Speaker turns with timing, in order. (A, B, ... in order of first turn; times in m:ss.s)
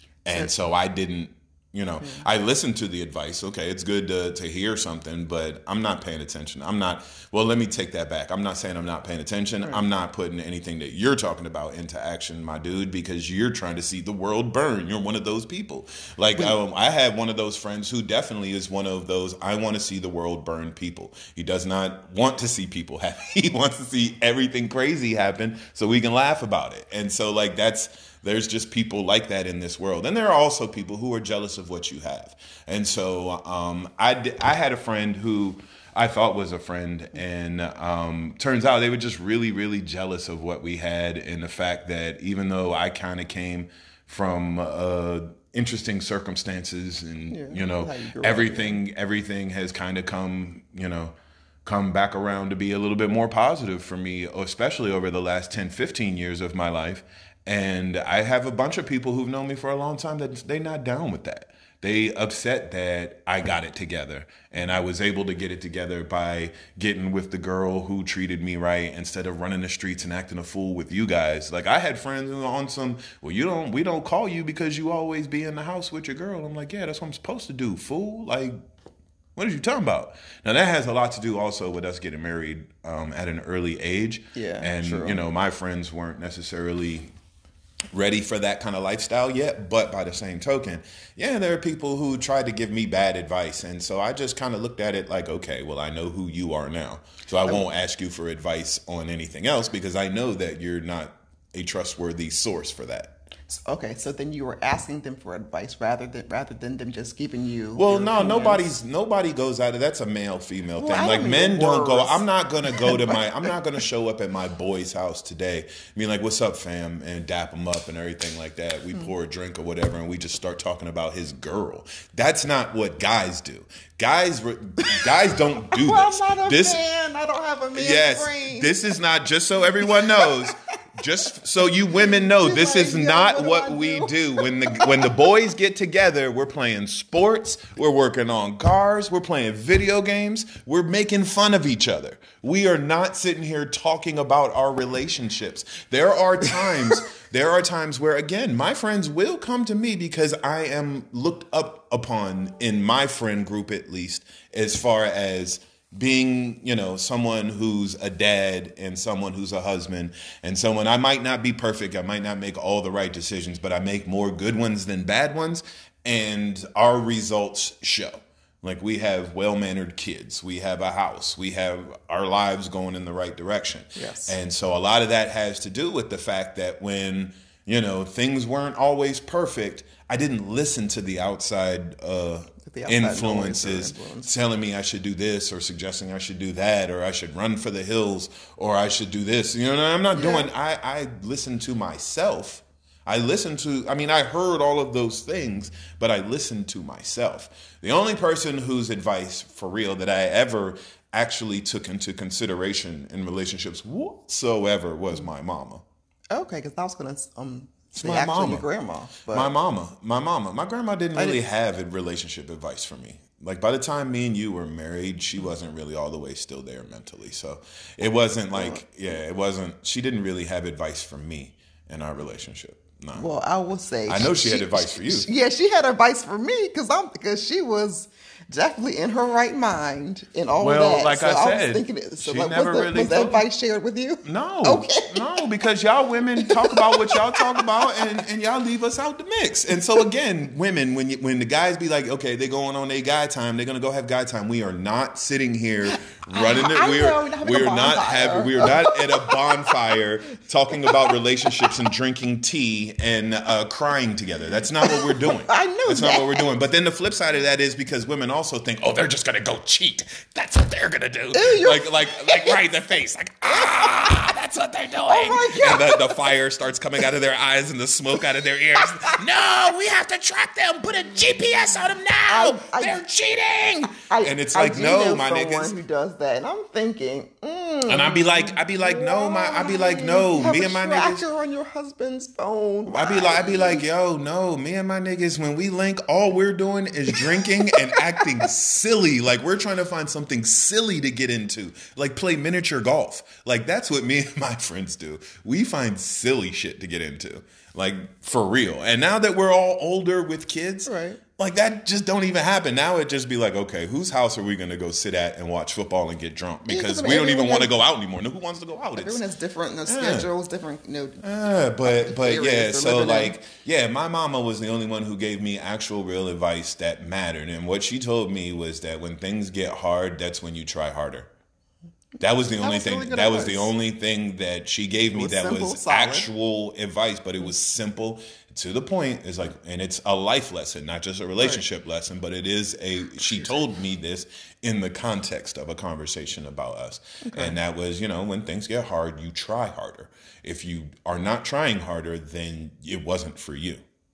0:00.2-0:51.1 A
0:02.0-0:02.3 B
0:47.3-0:48.8 B
0:51.6-1:18.6 A
1:19.4-1:27.1 A
1:24.4-1:25.2 B
1:27.9-1:43.1 A
1:43.5-1:48.7 B
1:47.8-2:06.8 A
1:50.8-1:53.2 B
2:04.8-2:08.8 B
2:07.8-3:25.8 A
2:09.8-2:10.6 B
2:11.9-2:15.2 B
2:54.0-2:54.4 B
3:02.6-3:04.3 B
3:10.1-3:10.5 B
3:26.3-3:29.5 B
3:27.9-3:28.7 A
3:29.3-3:43.3 A
3:38.5-3:38.8 B
3:43.1-3:55.4 B
3:44.1-3:45.3 A
3:50.6-3:53.4 A
3:54.2-4:35.7 A
3:56.4-3:58.2 B
4:05.9-4:09.8 B
4:10.8-4:11.1 B
4:14.8-4:16.5 B
4:21.3-4:22.6 B
4:23.5-4:23.9 B
4:25.1-4:26.3 B
4:32.3-4:33.0 B
4:34.0-4:43.8 B
4:37.9-4:41.2 A
4:42.9-5:09.2 A
4:47.7-4:48.4 B
5:00.9-5:01.2 B
5:06.6-5:07.7 B
5:09.0-5:11.3 B
5:09.9-5:10.3 A
5:11.2-5:21.3 A
5:11.8-5:13.4 B
5:22.2-5:43.8 A
5:22.6-5:23.7 B
5:25.1-5:26.3 B
5:37.2-5:37.6 B